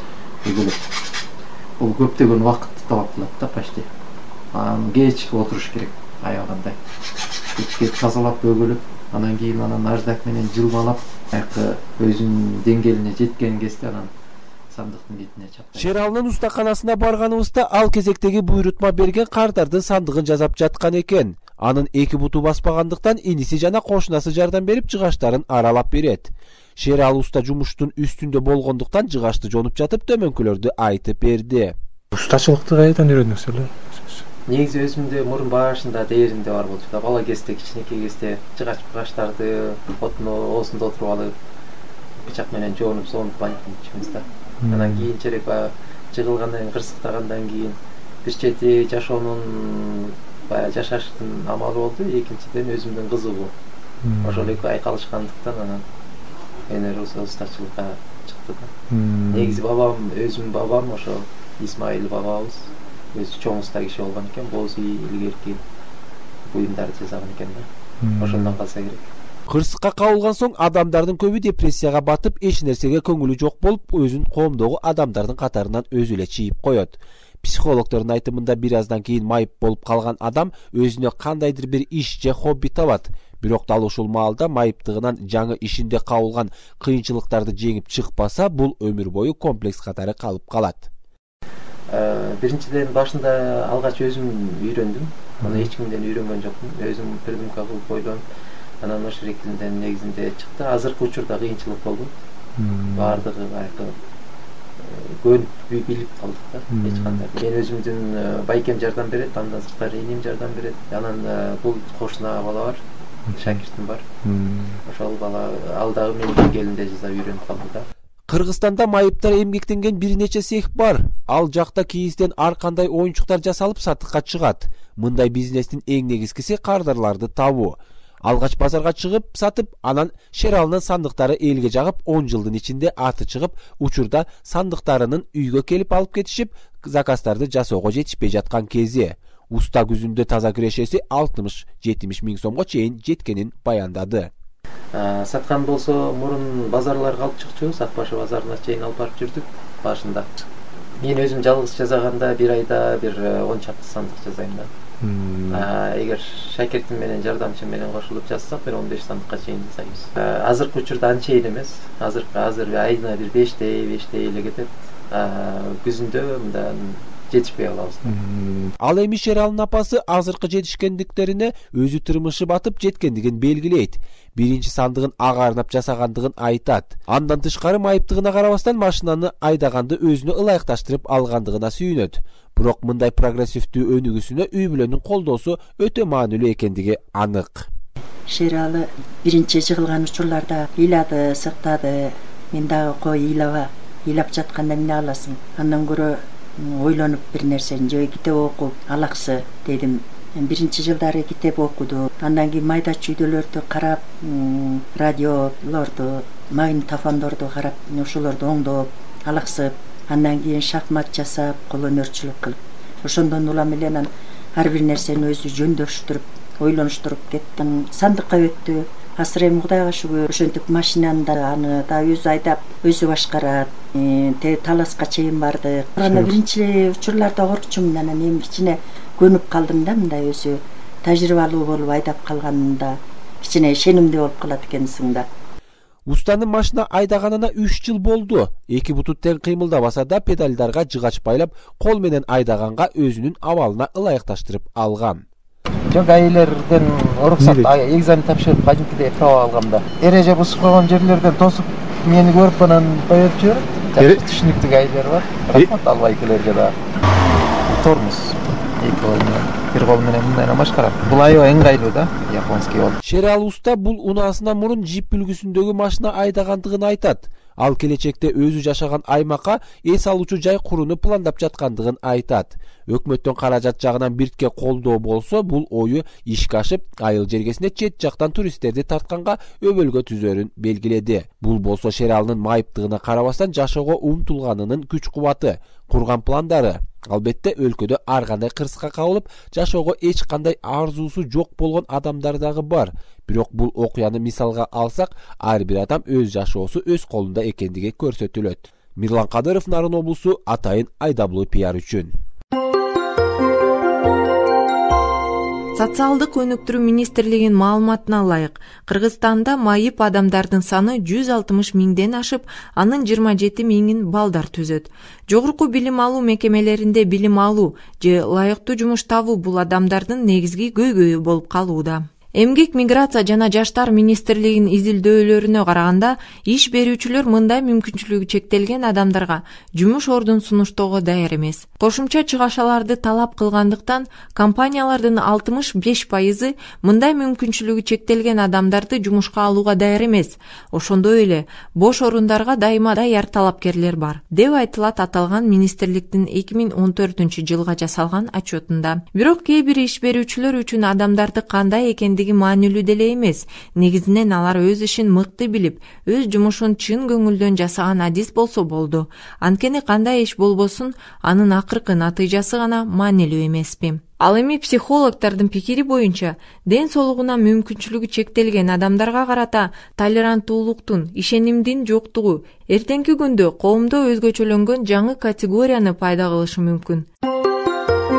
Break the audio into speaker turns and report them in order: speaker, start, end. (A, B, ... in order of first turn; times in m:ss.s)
0:00.4-0:00.8 A
0:01.8-0:03.9 A
0:04.5-0:06.8 A
0:07.5-0:14.1 A
0:14.7-0:15.9 A
0:15.7-0:31.7 B
0:32.1-0:34.2 C
0:34.5-0:41.3 A
0:42.2-0:53.5 A
0:44.6-0:45.1 C
0:54.0-0:54.5 C
0:54.2-0:55.8 A
0:56.7-0:58.7 A
0:58.9-0:59.6 C
0:59.3-1:05.6 A
1:06.5-1:07.7 A
1:08.0-1:08.6 C
1:08.2-1:09.1 A
1:09.5-1:30.9 B
1:31.9-1:38.2 A
1:35.4-1:35.7 C
1:38.8-1:42.1 A
1:42.6-1:43.2 C
1:42.9-1:44.0 A
1:44.8-1:52.8 A
1:46.7-1:47.2 C
1:53.3-1:53.6 C
1:53.3-1:54.0 A
1:54.2-1:54.8 C
1:54.8-1:57.9 A
1:58.3-2:24.3 B
2:24.9-2:30.3 A
2:31.0-2:34.7 A
2:35.0-2:35.7 C
2:35.5-2:48.2 A
2:48.1-2:48.7 C
2:48.8-3:07.7 B
3:08.3-3:55.2 D
3:46.0-3:46.3 C
3:56.1-4:05.2 B
4:05.9-4:16.8 A
4:07.4-4:07.7 C
4:17.6-4:23.0 A
4:23.0-5:02.1 B
5:05.7-6:17.1 E